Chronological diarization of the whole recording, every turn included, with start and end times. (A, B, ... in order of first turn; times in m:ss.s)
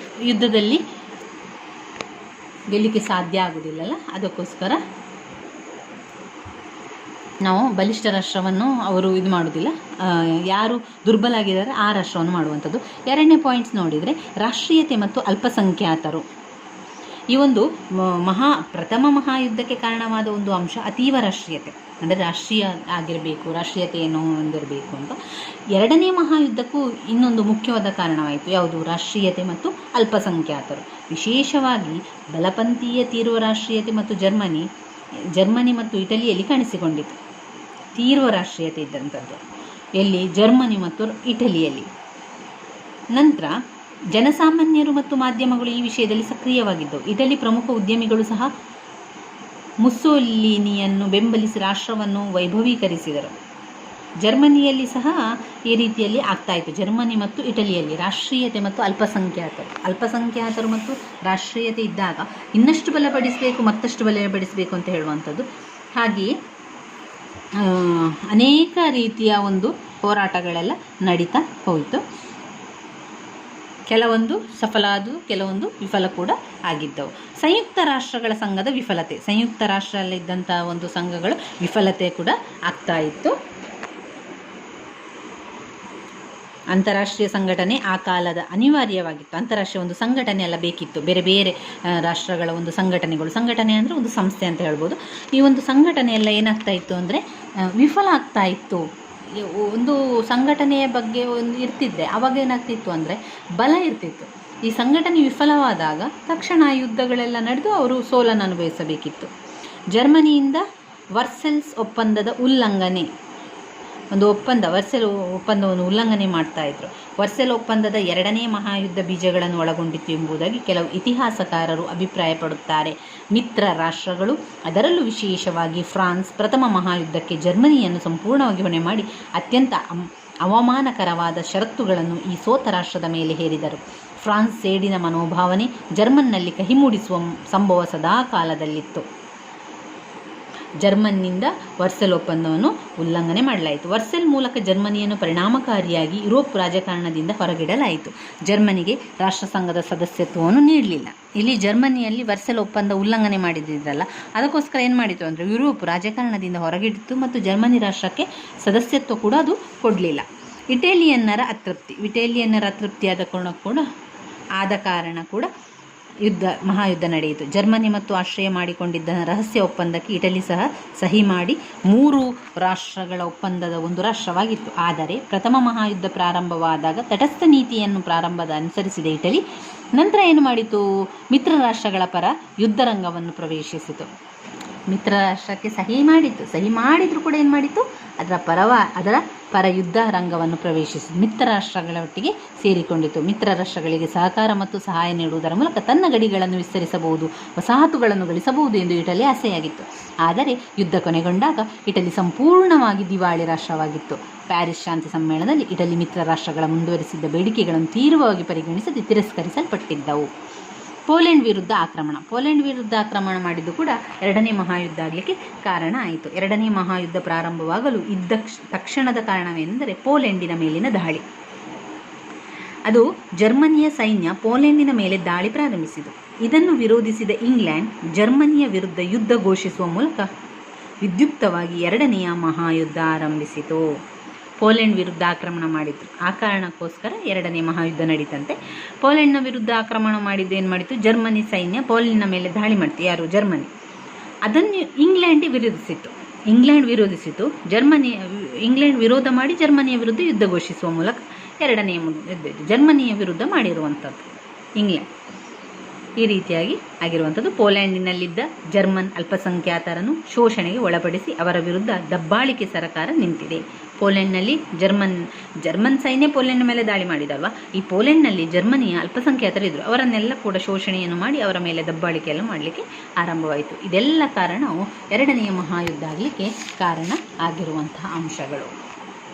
0:00.3-0:00.8 A
0:02.7-0:04.8 A
0:07.4-0:16.2 A
0:17.3-0:25.2 A
0:25.7-0:34.7 A
0:35.3-0:37.2 A
0:37.9-0:39.4 A
0:40.0-0:41.9 A
0:43.1-0:43.5 A
0:44.1-0:48.5 A
0:49.8-0:53.3 A
0:54.2-1:05.4 A
1:06.0-1:06.3 A
1:07.6-1:12.0 A
1:13.9-1:23.4 A
1:26.7-1:37.2 A
1:37.8-1:38.8 A
1:39.3-1:49.3 A
1:49.9-1:50.6 A
1:51.2-1:53.1 A
1:54.1-2:19.0 A
2:20.8-2:43.8 A
2:44.6-2:45.5 A
2:46.2-2:59.4 A
3:00.0-3:04.1 A
3:04.9-3:30.3 A
3:31.1-3:41.2 A
3:42.9-3:50.3 A
3:51.0-3:53.8 A
3:54.6-4:03.7 A
4:04.4-4:14.3 A
4:14.8-4:15.1 A
4:16.2-4:38.7 A